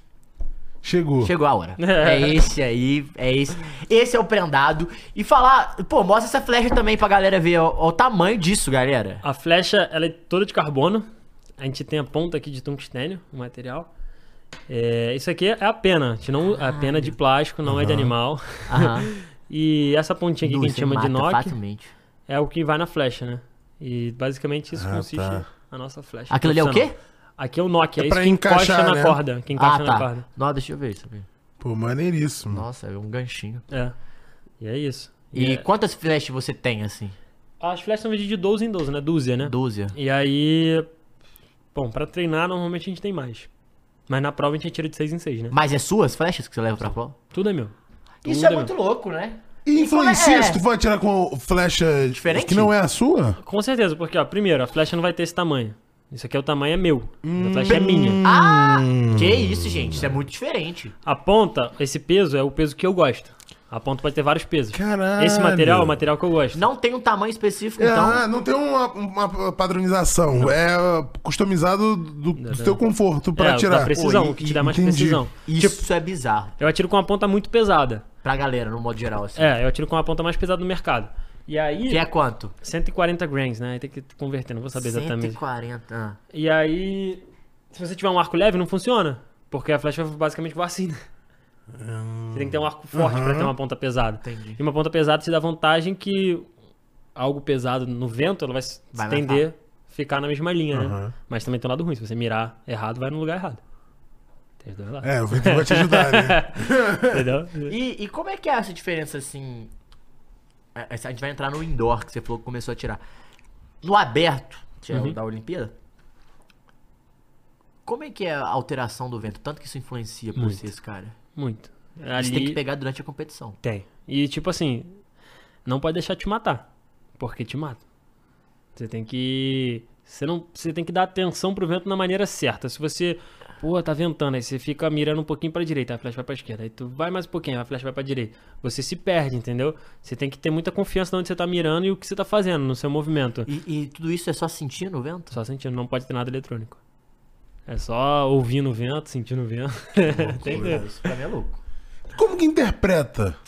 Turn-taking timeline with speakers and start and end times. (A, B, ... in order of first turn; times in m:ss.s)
0:00.8-0:01.3 A
0:01.2-0:09.2 B
0:01.8-0:02.4 C
0:09.2-0:11.0 C
0:11.6-0:13.9 C
0:14.7-0:21.6 C
0:16.6-0:17.1 B
0:17.6-0:18.1 A
0:18.7-0:19.1 B
0:20.4-0:21.9 B
0:22.3-0:30.2 C
0:24.7-0:25.4 A
0:26.3-0:26.9 B
0:28.0-0:29.2 A
0:29.6-0:31.3 B
0:31.6-0:32.6 A
0:32.5-0:33.6 B
0:34.6-0:35.6 C
0:35.3-0:37.1 B
0:37.6-0:40.9 C
0:39.4-0:39.9 B
0:41.7-0:43.5 C
0:44.1-0:45.5 C
0:45.5-0:47.1 B
0:47.3-0:48.7 C
0:48.2-0:50.6 B
0:49.6-0:53.4 A
0:52.1-0:52.7 B
0:53.4-0:58.2 C
0:57.2-1:00.1 A
0:57.7-1:00.9 B
1:01.0-1:06.6 C
1:04.7-1:06.0 A
1:06.5-1:08.2 B
1:07.8-1:15.2 A
1:12.4-1:12.8 C
1:13.4-1:15.8 C
1:13.9-1:14.6 B
1:15.4-1:16.5 B
1:16.6-1:18.0 C
1:18.2-1:19.5 B
1:19.4-1:22.0 C
1:21.9-1:22.5 B
1:22.6-1:25.4 C
1:24.8-1:26.2 B
1:26.3-1:31.0 C
1:31.7-1:33.5 A
1:32.3-1:36.4 C
1:34.2-1:34.6 B
1:37.2-1:43.6 C
1:39.0-1:39.4 B
1:40.7-1:41.1 A
1:44.6-1:47.7 C
1:45.0-1:47.3 A
1:47.6-1:49.7 B
1:50.7-1:53.0 B
1:53.8-1:55.7 B
1:57.8-2:01.1 B
2:00.4-2:00.6 C
2:01.3-2:02.6 C
2:02.1-2:03.6 B
2:03.6-2:05.0 C
2:05.6-2:06.7 C
2:07.2-2:07.8 C
2:08.8-2:23.5 C
2:23.4-2:25.3 B
2:25.3-2:26.8 C
2:27.7-2:30.8 C
2:30.1-2:30.8 A
2:30.2-2:31.6 B
2:32.1-2:33.4 A